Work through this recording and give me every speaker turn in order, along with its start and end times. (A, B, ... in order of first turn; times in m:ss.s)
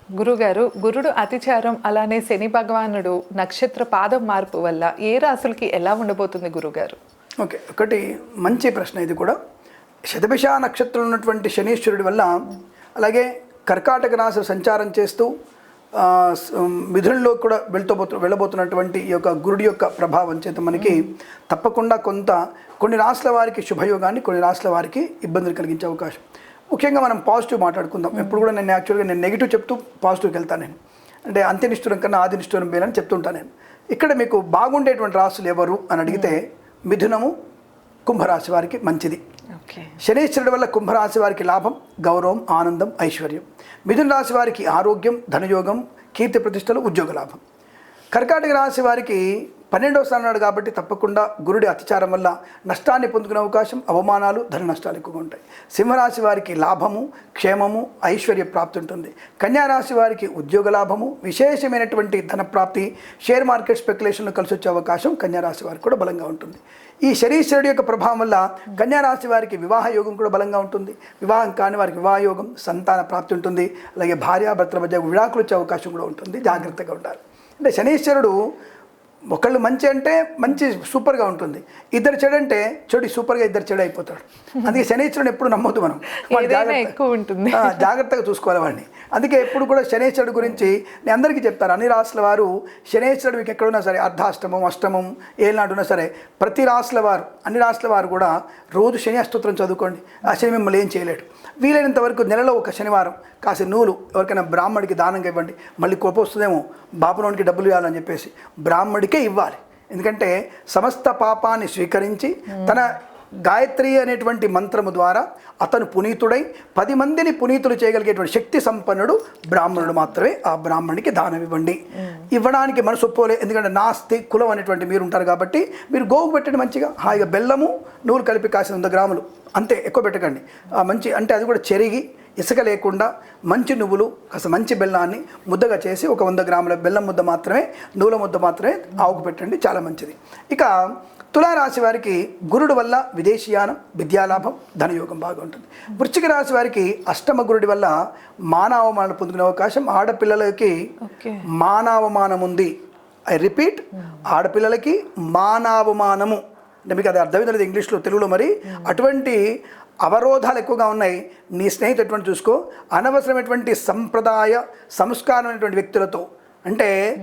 0:00.2-0:07.0 A
0:07.4-0:09.4 B
0:10.1-0:15.3 B
0:16.0-0:37.3 B
0:38.0-0:39.2 B
0:39.6-0:39.9 A
0:40.0-0:47.4 B
0:48.1-1:18.3 B
1:19.3-1:27.0 B
1:26.2-1:27.9 A
1:27.5-2:20.7 B
2:21.3-2:27.9 B
2:28.5-2:30.7 B
2:31.0-2:31.4 A
2:31.4-2:32.7 B
2:33.3-2:39.4 B
2:40.0-2:46.9 B